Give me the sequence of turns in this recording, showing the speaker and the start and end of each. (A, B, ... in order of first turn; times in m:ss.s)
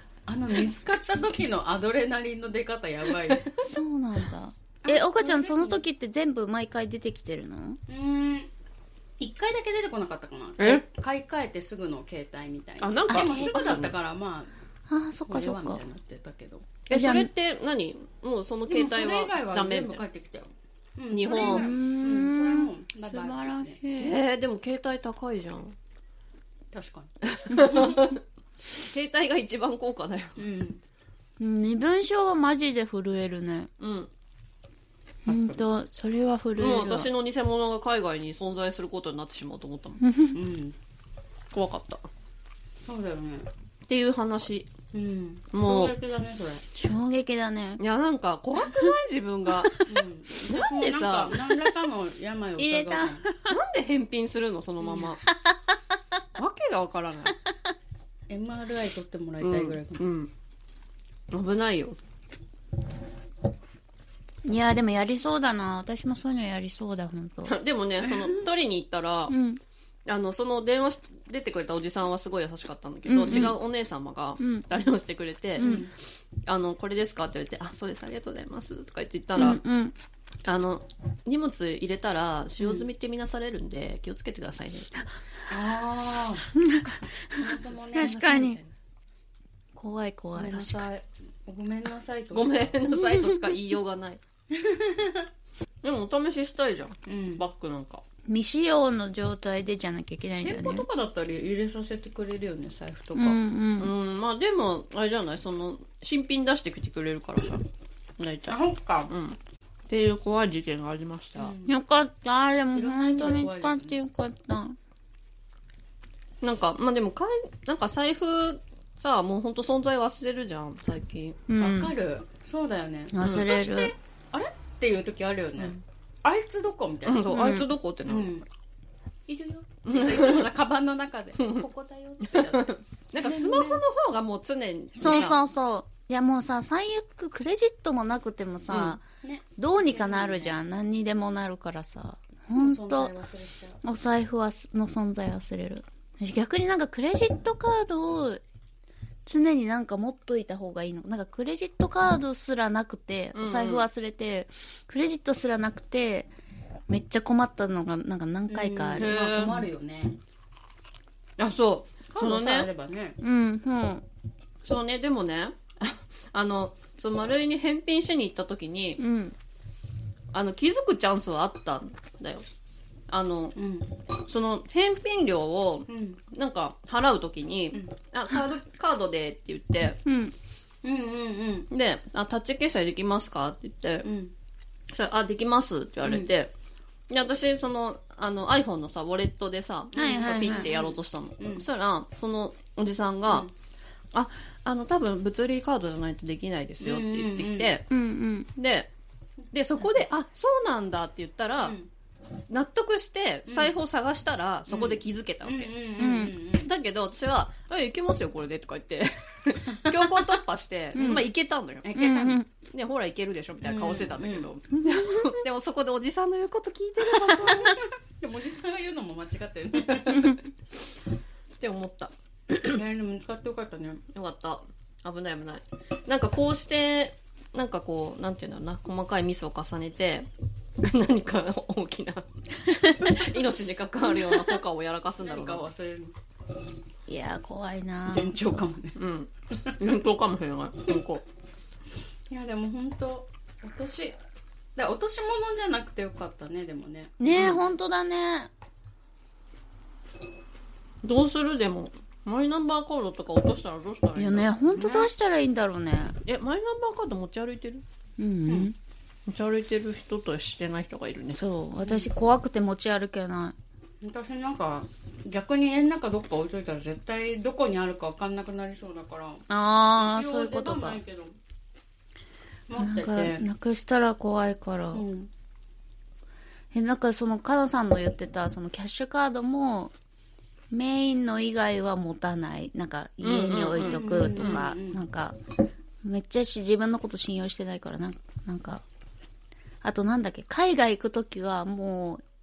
0:00.2-0:03.5 A
0:03.6-0:07.8 B
0:04.8-0:05.8 A
0:07.9-0:08.5 A
0:09.2-0:14.5 A
0:10.6-0:10.8 C
0:12.8-0:13.9 C
0:13.1-0:13.6 B
0:14.9-0:15.8 B
0:15.3-0:16.7 A
0:16.9-0:20.0 C
0:16.9-0:17.3 B
0:18.7-0:23.8 A
0:21.1-0:21.7 C
0:21.3-0:24.1 B
0:24.0-0:25.8 C
0:26.7-0:27.1 A
0:27.2-0:28.2 C
0:27.5-0:28.0 B
0:27.7-0:28.0 A
0:28.8-0:30.4 C
0:30.4-0:30.8 A
0:31.4-0:33.7 B
0:33.8-0:34.1 C
0:35.2-0:37.1 B
0:35.3-0:35.6 A
0:36.6-0:40.0 C
0:40.0-0:40.4 B
0:40.3-0:40.8 A
0:41.5-0:42.1 C
0:42.8-0:43.5 A
0:43.9-0:44.7 C
0:44.9-0:46.6 A
0:45.5-0:45.9 C
0:46.7-0:47.8 B
0:47.8-0:49.8 C
0:49.9-0:53.2 A
0:50.4-0:51.4 C
0:52.6-0:53.5 B
0:53.5-0:55.2 C
0:54.8-0:55.2 A
0:56.4-0:57.4 C
0:58.3-1:00.0 A
0:59.4-1:00.3 C
1:01.3-1:02.0 C
1:04.4-1:07.6 B
1:07.5-1:09.3 C
1:08.1-1:08.4 A
1:09.3-1:09.6 B
1:10.0-1:15.8 C
1:13.1-1:13.6 B
1:14.4-1:14.7 B
1:15.6-1:15.8 B
1:15.6-1:15.9 A
1:16.4-1:19.6 C
1:19.4-1:19.9 B
1:20.4-1:24.9 C
1:22.6-1:22.9 A
1:25.5-1:28.2 A
1:26.5-1:28.6 B
1:27.4-1:28.7 C
1:29.8-1:30.8 B
1:30.3-1:32.8 A
1:32.3-1:34.2 C
1:32.9-1:33.5 B
1:34.5-1:35.3 A
1:35.8-1:38.0 C
1:37.1-1:37.4 A
1:38.3-1:40.8 B
1:40.4-1:43.4 A
1:43.1-1:43.9 B
1:43.8-1:47.6 C
1:48.2-1:49.4 C
1:48.5-1:49.1 A
1:49.9-1:51.5 C
1:51.4-1:51.8 A
1:51.6-1:54.8 B
1:52.7-1:54.0 A
1:56.4-2:01.4 C
2:01.5-2:01.9 B
2:01.6-2:07.4 A
2:03.1-2:03.9 B
2:03.2-2:03.5 C
2:07.0-2:08.4 C
2:07.3-2:07.7 B
2:08.0-2:08.4 A
2:09.3-2:13.8 A
2:09.8-2:10.5 C
2:11.4-2:11.7 C
2:12.3-2:15.4 C
2:15.0-2:19.0 B
2:15.0-2:15.4 A
2:18.7-2:20.6 A
2:19.6-2:23.1 B
2:22.5-2:23.8 A
2:23.8-2:28.4 B
2:29.2-2:36.3 B
2:33.3-2:33.8 C
2:36.9-2:39.1 B
2:38.5-2:40.2 A
2:39.0-2:39.6 C
2:41.4-2:42.7 C
2:42.1-2:43.2 A
2:43.2-2:44.0 B
2:44.6-2:49.0 C
2:49.0-2:49.3 B
2:50.3-2:52.4 C
2:53.1-2:53.6 C
2:53.6-2:53.9 A
2:54.2-3:00.0 C
2:55.9-2:56.2 A
3:00.0-3:00.3 B
3:00.8-3:01.7 A
3:01.7-3:04.1 C
3:04.0-3:04.3 A
3:04.9-3:06.5 C
3:06.0-3:06.3 A
3:07.1-3:13.5 C
3:09.9-3:11.6 A
3:09.9-3:10.7 B
3:14.1-3:17.9 C
3:16.8-3:17.7 A
3:17.9-3:18.5 B
3:18.6-3:18.9 C
3:19.5-3:21.8 C
3:21.6-3:21.9 A
3:22.5-3:25.7 C
3:23.5-3:23.8 A
3:24.7-3:26.7 A
3:26.0-3:26.3 B
3:26.6-3:32.0 C
3:30.9-3:31.2 B
3:31.0-3:31.3 A
3:31.8-3:32.4 A
3:31.9-3:32.4 B
3:32.7-3:37.7 C
3:33.6-3:34.5 A
3:34.7-3:35.4 B
3:37.0-3:40.4 A
3:41.6-3:42.8 C
3:42.6-3:44.0 A
3:44.1-3:50.3 C
3:50.8-3:55.7 C
3:52.7-3:53.3 B
3:55.2-3:56.2 A
3:57.1-3:58.4 B
3:58.1-3:59.0 A
3:59.0-4:01.2 C
4:02.3-4:04.2 A
4:04.8-4:07.2 A
4:07.2-4:08.5 B
4:07.3-4:07.6 C
4:11.0-4:14.6 C
4:14.2-4:16.2 B
4:14.7-4:15.1 A
4:16.2-4:17.8 C
4:18.2-4:18.7 B
4:19.3-4:21.4 C
4:21.4-4:23.5 B
4:21.8-4:22.1 A
4:24.0-4:31.4 A
4:29.5-4:31.0 B
4:32.7-4:33.4 A
4:32.8-4:35.0 B
4:34.9-4:35.3 A
4:36.7-4:39.9 B
4:40.7-4:45.4 B
4:43.2-4:44.6 C
4:43.8-4:45.0 A
4:46.0-4:48.8 B
4:49.8-4:52.2 B